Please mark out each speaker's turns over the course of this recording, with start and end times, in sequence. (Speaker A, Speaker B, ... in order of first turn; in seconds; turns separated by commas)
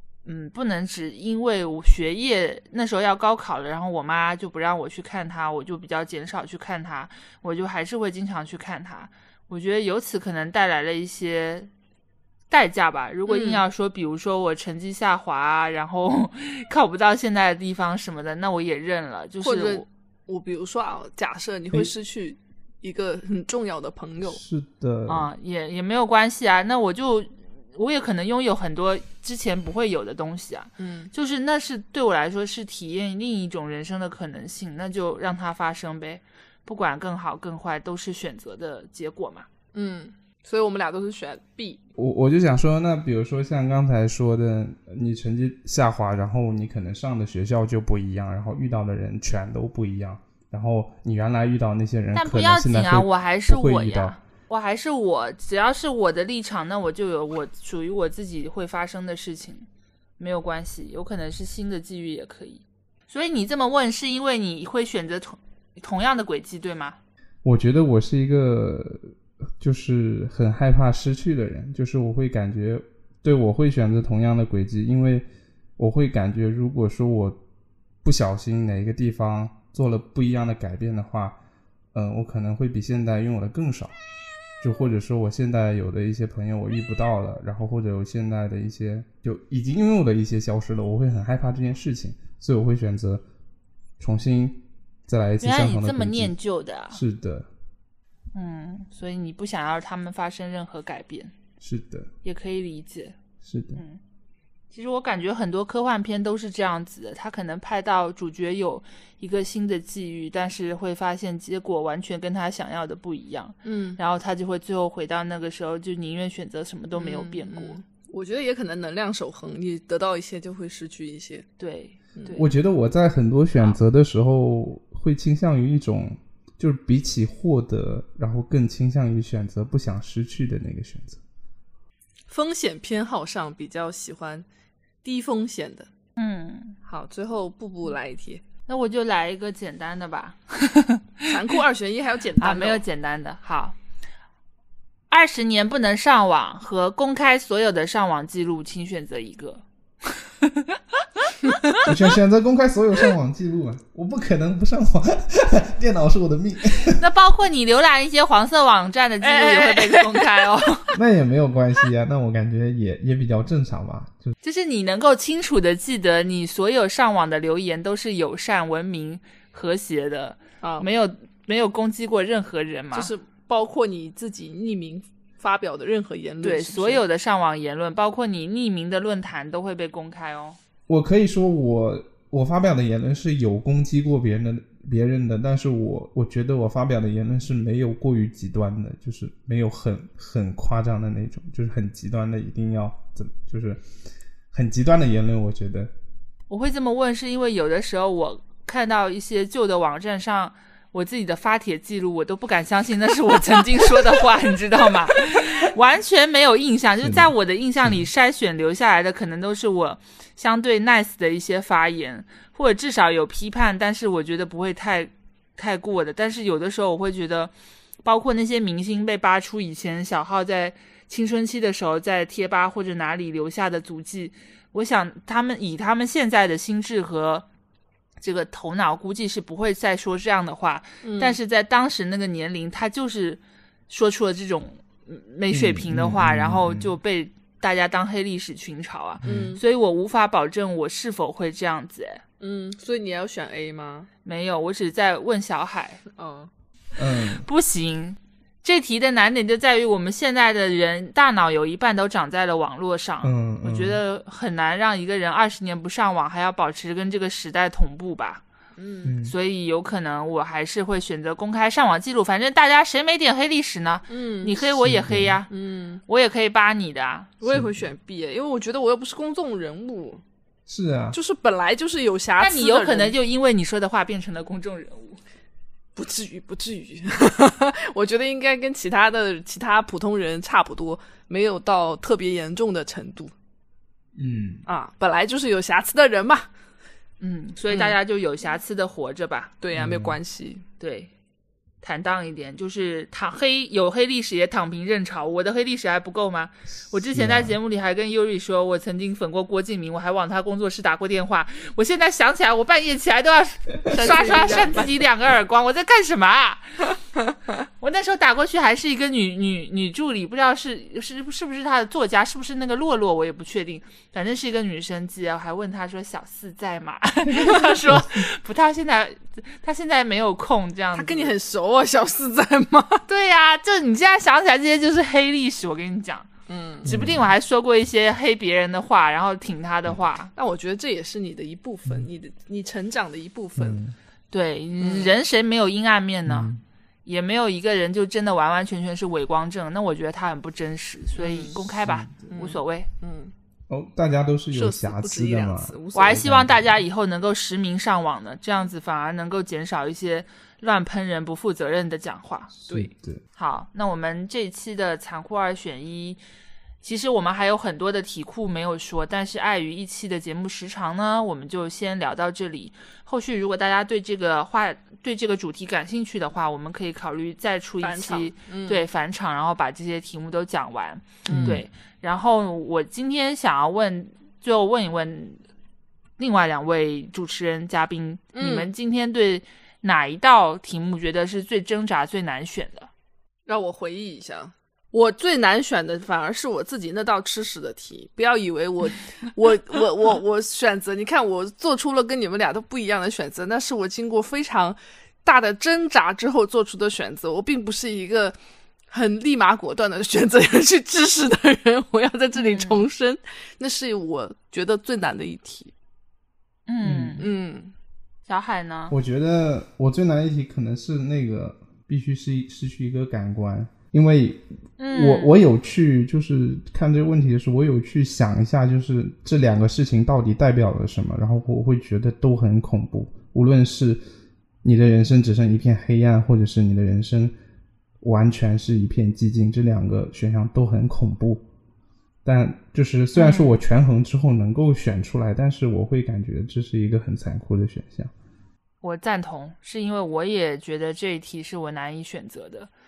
Speaker A: 0.2-11.7, Speaker A: 12.5-19.9, Speaker B: 13.3-13.6, Speaker B: 19.4-24.4, Speaker C: 24.2-25.3, Speaker A: 25.1-39.5, Speaker B: 30.8-31.1, Speaker B: 39.7-41.8, Speaker C: 42.0-54.2, Speaker A: 52.1-59.7, Speaker A: 60.2-67.0, Speaker C: 67.4-75.3, Speaker C: 75.8-77.4, Speaker C: 78.0-81.4, Speaker C: 81.9-84.0, Speaker C: 84.6-93.2, Speaker C: 94.0-96.3, Speaker A: 95.4-97.0, Speaker C: 96.9-97.5, Speaker A: 98.3-101.3, Speaker C: 101.6-102.1, Speaker A: 102.2-103.2, Speaker C: 103.4-103.8, Speaker A: 104.7-117.8, Speaker B: 113.7-114.0, Speaker B: 117.0-121.5, Speaker A: 121.6-122.5, Speaker C: 122.3-131.2, Speaker B: 132.3-134.5, Speaker B: 135.0-135.9, Speaker A: 136.2-136.8, Speaker B: 136.9-138.4, Speaker A: 138.7-141.3, Speaker B: 141.3-142.8, Speaker A: 142.4-143.8, Speaker A: 145.1-150.8, Speaker C: 151.8-157.0, Speaker A: 157.0-160.9, Speaker B: 159.2-160.6, Speaker C: 160.9-164.3, Speaker A: 164.4-173.1, Speaker B: 170.6-170.9, Speaker B: 172.9-177.0, Speaker A: 176.4-180.6, Speaker C: 180.9-193.8, Speaker C: 194.5-195.9, Speaker A: 196.5-217.5, Speaker C: 207.0-207.3, Speaker A: 218.0-227.5, Speaker A: 228.2-242.2, Speaker B: 231.0-231.4, Speaker C: 235.5-237.0, Speaker C: 239.2-239.6, Speaker B: 239.2-239.6, Speaker B: 242.4-244.1, Speaker A: 244.2-246.0, Speaker B: 246.1-246.5, Speaker C: 247.0-247.5, Speaker A: 247.4-258.4, Speaker C: 253.2-254.0, Speaker B: 258.8-259.1, Speaker C: 259.0-259.4, Speaker A: 259.2-265.5, Speaker B: 264.1-264.7, Speaker C: 264.8-265.4, Speaker B: 265.5-266.0, Speaker A: 266.1-267.3, Speaker B: 267.4-270.2, Speaker C: 267.5-267.9, Speaker C: 270.7-271.2, Speaker B: 271.1-273.1, Speaker A: 272.4-275.2, Speaker B: 276.0-283.3, Speaker C: 284.2-284.6, Speaker B: 284.7-286.5, Speaker A: 287.2-289.5, Speaker B: 289.6-290.6, Speaker C: 289.7-290.2, Speaker A: 290.8-291.1, Speaker A: 291.8-306.9, Speaker C: 297.1-297.6, Speaker B: 303.9-305.0, Speaker A: 307.8-321.3, Speaker C: 317.3-318.3, Speaker B: 320.9-323.1, Speaker A: 323.1-326.3, Speaker B: 326.5-326.9, Speaker A: 326.9-330.3, Speaker C: 326.9-327.3, Speaker B: 330.4-333.8, Speaker C: 333.6-333.9, Speaker A: 334.3-336.5, Speaker B: 334.8-335.2, Speaker C: 336.3-336.6, Speaker A: 337.1-342.9, Speaker B: 341.2-341.6, Speaker C: 341.8-342.3, Speaker B: 342.3-343.3, Speaker C: 343.7-346.8, Speaker B: 344.5-346.2, Speaker A: 345.9-352.5, Speaker C: 352.5-353.2, Speaker A: 353.4-356.2, Speaker A: 356.8-375.4, Speaker B: 367.8-368.9, Speaker B: 371.3-371.6, Speaker C: 371.3-371.6, Speaker A: 376.2-382.9, Speaker B: 378.4-378.7, Speaker B: 383.5-398.4, Speaker B: 398.9-405.7, Speaker A: 402.4-402.9, Speaker A: 406.7-407.3, Speaker C: 406.8-407.2, Speaker B: 407.2-407.7, Speaker A: 408.3-408.9, Speaker C: 408.9-424.0, Speaker A: 414.8-415.4, Speaker C: 424.6-427.3, Speaker C: 428.0-431.4, Speaker C: 432.2-438.1, Speaker A: 433.1-433.5, Speaker A: 438.8-442.7